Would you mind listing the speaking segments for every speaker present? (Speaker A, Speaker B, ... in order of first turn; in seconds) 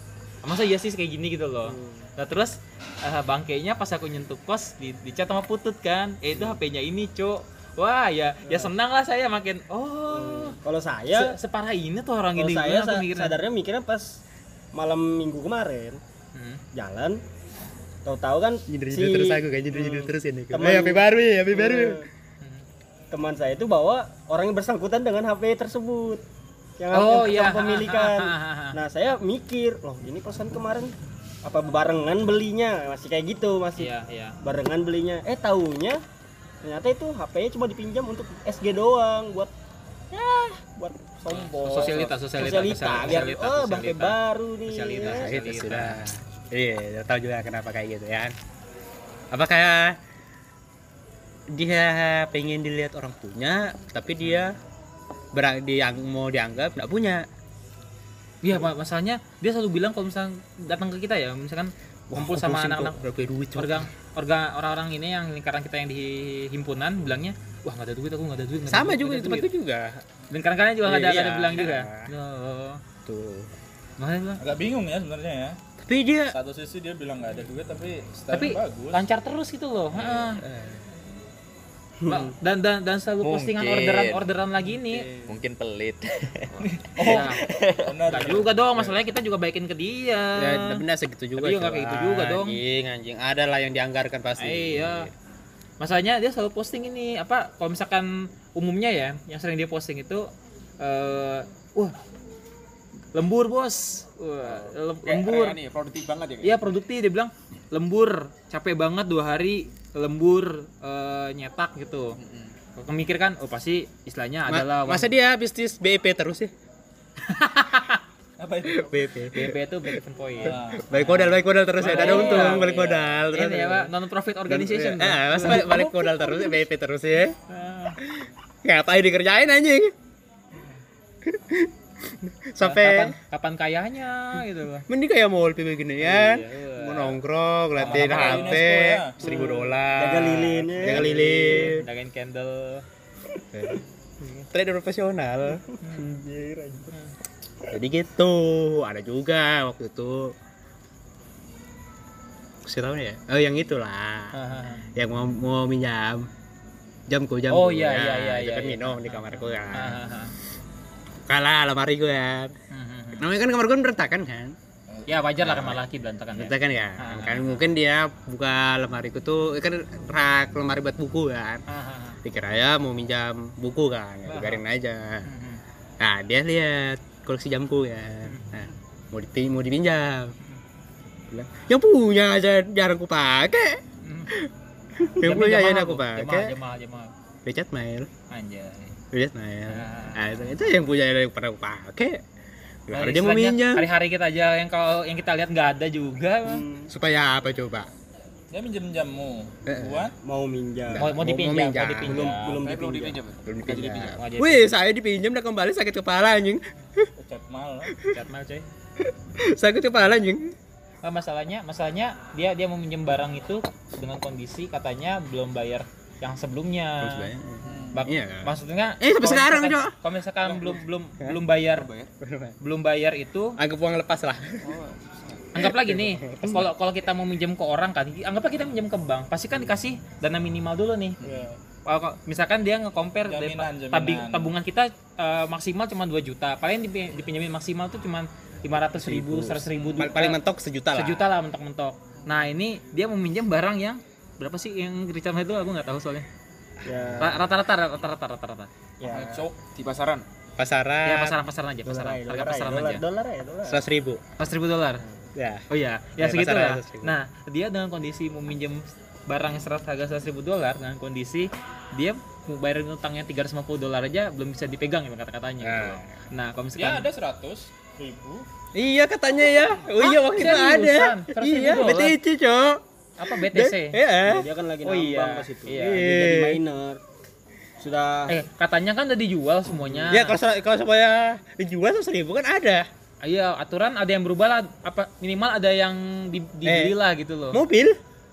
Speaker A: 0.4-10.6, 11.1-13.4, 16.3-16.6, 22.4-22.7, 26.9-28.8, 33.8-34.4, 41.3-46.0, 58.4-63.0, 63.5-69.5, 70.3-72.8, 74.0-74.4, 78.3-80.4, 82.0-85.1, 87.0-87.4, 88.1-90.8, 91.4-92.6, 94.4-95.1, 95.8-101.9, 103.1-105.6, 106.4-112.2, 112.8-115.1, 117.3-118.0, 119.3-126.3, 127.5-128.0, 132.6-134.9, 136.0-137.2, 137.8-138.4, 141.5-142.8, 154.3-154.9, 157.5-160.3, 162.7-163.2, 165.1-167.7, 171.7-172.2, 174.3-174.6, 175.2-175.6, 178.2-178.6, 184.0-184.3, 185.2-187.1, 188.3-189.0, 189.7-190.7, 192.9-196.6, 201.0-202.6, 204.0-204.7, 208.1-208.7, 211.0-217.3, 217.9-221.9, 222.6-223.6, 225.5-231.2, 231.8-240.4, 240.9-246.3, 247.2-248.7, 251.0-253.0, 254.4-255.0, 255.7-267.1, 270.0-272.2, 273.2-274.0, 274.8-276.0, 278.3-280.4, 283.2-287.6
Speaker B: 1.7-2.0, 10.1-11.3, 12.3-14.2, 14.7-16.0, 16.7-17.2, 18.0-22.1, 23.1-26.2, 26.8-30.9, 31.4-36.0, 36.6-39.5, 40.1-45.3, 139.2-141.8, 143.4-143.8, 145.5-146.9, 196.4-196.9, 200.2-201.1, 202.0-203.2, 246.8-247.4, 249.0-249.5, 251.8-253.8, 268.0-268.4, 274.2-277.0, 277.8-278.4
Speaker C: 18.7-22.0, 45.0-48.3, 49.3-50.0, 51.5-54.6, 55.3-57.2, 62.1-63.9, 68.7-70.0, 70.8-72.1, 73.0-73.5, 75.8-76.3, 80.4-80.8, 90.3-95.1, 114.5-116.5, 118.7-123.9, 124.5-127.3, 128.0-129.9, 131.2-133.1, 134.9-141.8, 143.5-145.6, 147.7-150.3, 152.6-154.3, 154.9-156.3, 157.1-160.0, 161.3-162.5, 163.2-164.6, 165.4-165.8, 166.3-171.6, 172.2-175.3, 176.0-180.3, 181.3-186.6, 187.4-188.1, 189.1-192.2, 192.9-193.9, 196.9-197.9, 199.7-200.1, 200.9-202.3, 203.4-207.1, 209.0-210.5, 217.0-219.9, 222.2-222.5, 223.6-224.7, 225.5-226.7, 239.0-241.3, 246.8-247.4, 250.6-251.4, 253.7-254.2, 255.3-257.2, 265.6-266.2, 268.7-274.5, 275.7-276.6, 279.9-282.9, 286.6-286.9, 287.5-288.0
Speaker D: 74.4-75.6, 76.3-79.0, 86.6-88.5, 118.4-119.1, 120.4-120.9, 121.8-123.2, 137.8-139.2, 198.5-200.2, 207.2-207.9, 217.7-218.0, 231.2-231.5, 233.2-234.5, 249.0-250.2, 266.8-267.7
Speaker E: 83.2-84.3, 85.3-87.9
Speaker F: 105.0-106.6, 202.6-204.2, 221.7-222.1, 224.6-225.5, 249.6-250.2